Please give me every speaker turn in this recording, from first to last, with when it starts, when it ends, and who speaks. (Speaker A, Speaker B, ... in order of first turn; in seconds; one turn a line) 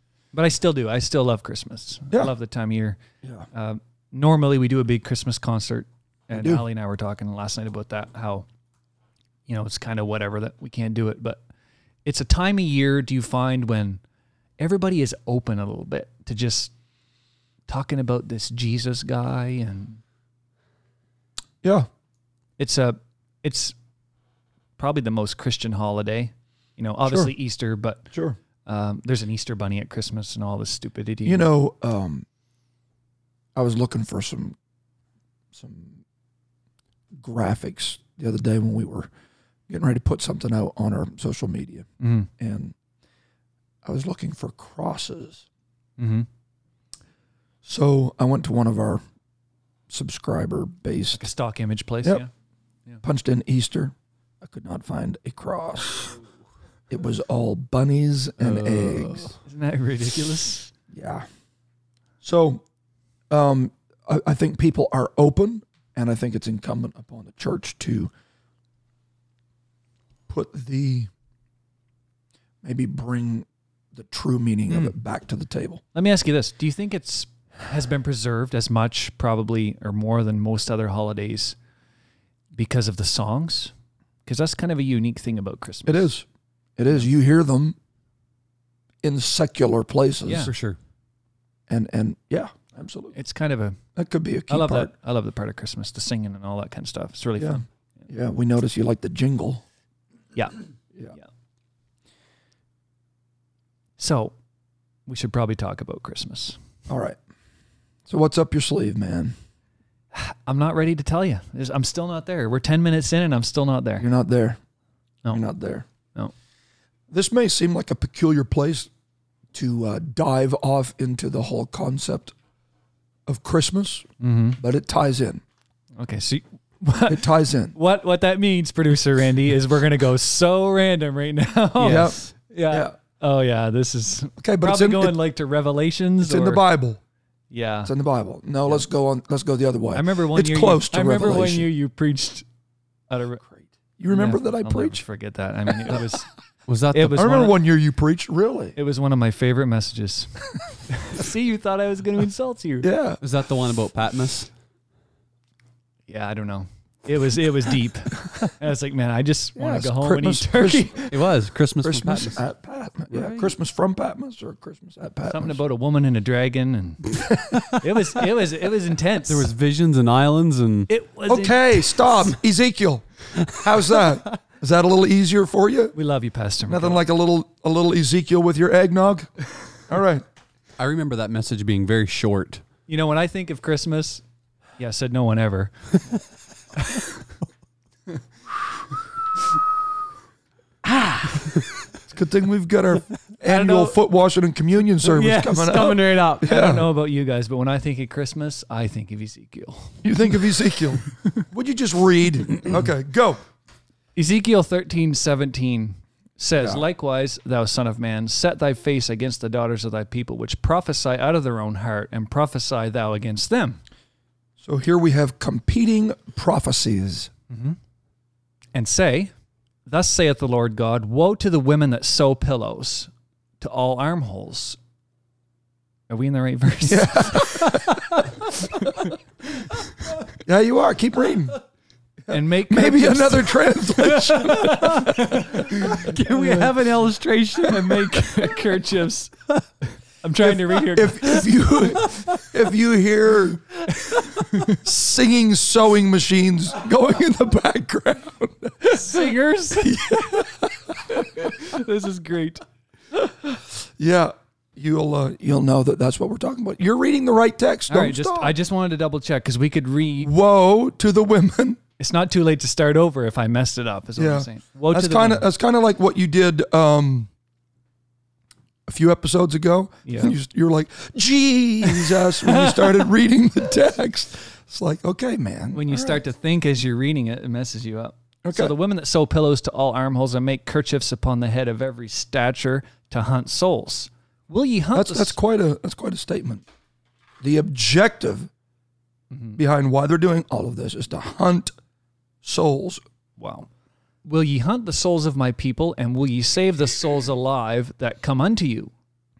Speaker A: 0.3-3.0
Speaker A: 3.5-8.5
Speaker B: 6.3-6.6
Speaker A: 9.5-11.4
Speaker A: 12.1-14.0
Speaker A: 14.6-16.7
Speaker A: 17.7-20.0
Speaker B: 21.6-21.9
Speaker A: 22.6-23.8
Speaker A: 24.8-28.1
Speaker B: 27.1-27.3
Speaker A: 28.7-31.4
Speaker B: 31.3-32.3
Speaker B: 33.6-34.6
Speaker B: 35.5-36.0
Speaker B: 37.2-39.1
Speaker B: 39.7-41.9
Speaker A: 42.0-42.3
Speaker B: 42.4-42.8
Speaker B: 43.8-45.5
Speaker A: 46.0-46.3
Speaker B: 47.6-49.0
Speaker B: 49.9-51.2
Speaker A: 51.1-52.3
Speaker B: 53.0-56.2
Speaker B: 56.9-59.3
Speaker C: 58.4-59.4
Speaker A: 59.5-60.7
Speaker B: 60.9-61.2
Speaker B: 62.2-62.6
Speaker B: 63.3-68.1
Speaker B: 70.3-71.1
Speaker B: 72.6-75.8
Speaker A: 75.9-81.6
Speaker A: 82.5-83.7
Speaker A: 84.3-86.1
Speaker B: 85.9-86.2
Speaker B: 86.8-87.8
Speaker B: 89.0-90.5
Speaker A: 90.2-90.5
Speaker C: 90.4-90.8
Speaker B: 91.7-93.2
Speaker A: 93.1-93.8
Speaker B: 94.0-94.9
Speaker A: 94.5-97.6
Speaker B: 97.4-99.6
Speaker A: 104.0-104.3
Speaker A: 105.1-106.6
Speaker B: 106.9-107.2
Speaker B: 108.1-109.4
Speaker A: 110.1-114.1
Speaker B: 114.0-114.6
Speaker B: 115.3-115.9
Speaker B: 117.1-118.9
Speaker B: 119.5-122.3
Speaker B: 123.3-124.1
Speaker A: 124.2-124.6
Speaker B: 124.6-125.4
Speaker A: 126.0-136.6
Speaker B: 127.1-127.8
Speaker B: 131.8-132.9
Speaker B: 134.4-135.2
Speaker B: 136.2-137.0
Speaker A: 137.5-137.9
Speaker B: 137.8-141.7
Speaker A: 139.9-142.4
Speaker A: 143.1-143.4
Speaker B: 143.4-145.0
Speaker A: 144.1-146.3
Speaker C: 146.7-147.3
Speaker A: 146.9-147.6
Speaker B: 147.2-148.8
Speaker A: 148.8-152.9
Speaker B: 152.8-153.2
Speaker C: 153.2-154.5
Speaker A: 156.1-161.1
Speaker B: 159.6-161.2
Speaker C: 161.1-162.4
Speaker B: 161.8-165.6
Speaker C: 163.1-163.5
Speaker A: 165.3-169.5
Speaker B: 167.1-167.7
Speaker C: 169.3-170.9
Speaker A: 170.9-172.2
Speaker B: 171.3-175.9
Speaker A: 175.9-177.0
Speaker B: 176.7-179.3
Speaker B: 179.9-180.2
Speaker C: 180.8-182.6
Speaker A: 182.9-184.2
Speaker A: 184.8-186.0
Speaker C: 191.1-191.6
Speaker B: 192.1-196.9
Speaker A: 193.4-193.9
Speaker C: 195.0-196.5
Speaker A: 196.4-200.0
Speaker B: 200.0-203.4
Speaker A: 204.2-213.8
Speaker B: 214.6-217.3
Speaker A: 217.5-217.8
Speaker A: 218.7-219.3
Speaker A: 219.9-224.8
Speaker A: 226.1-229.1
Speaker B: 226.8-228.0
Speaker B: 230.4-231.6
Speaker B: 232.3-235.6
Speaker A: 232.3-236.7
Speaker C: 235.6-238.6
Speaker A: 237.6-239.4
Speaker A: 240.2-241.5
Speaker B: 240.4-251.5
Speaker A: 243.9-244.8
Speaker A: 248.9-250.5
Speaker A: 251.1-252.6
Speaker B: 253.2-258.5
Speaker A: 257.9-260.3
Speaker B: 260.2-261.8
Speaker A: 262.0-265.4
Speaker B: 264.2-267.3
Speaker B: 268.9-276.2
Speaker A: 270.1-270.4
Speaker A: 272.1-273.1
Speaker A: 275.7-285.4
Speaker B: 278.4-278.8
Speaker B: 284.9-286.6
Speaker B: 287.4-288.5
Speaker A: 289.3-289.6
Speaker B: 289.6-291.7
Speaker B: 292.4-293.0
Speaker A: 293.4-293.7
Speaker A: 294.2-298.9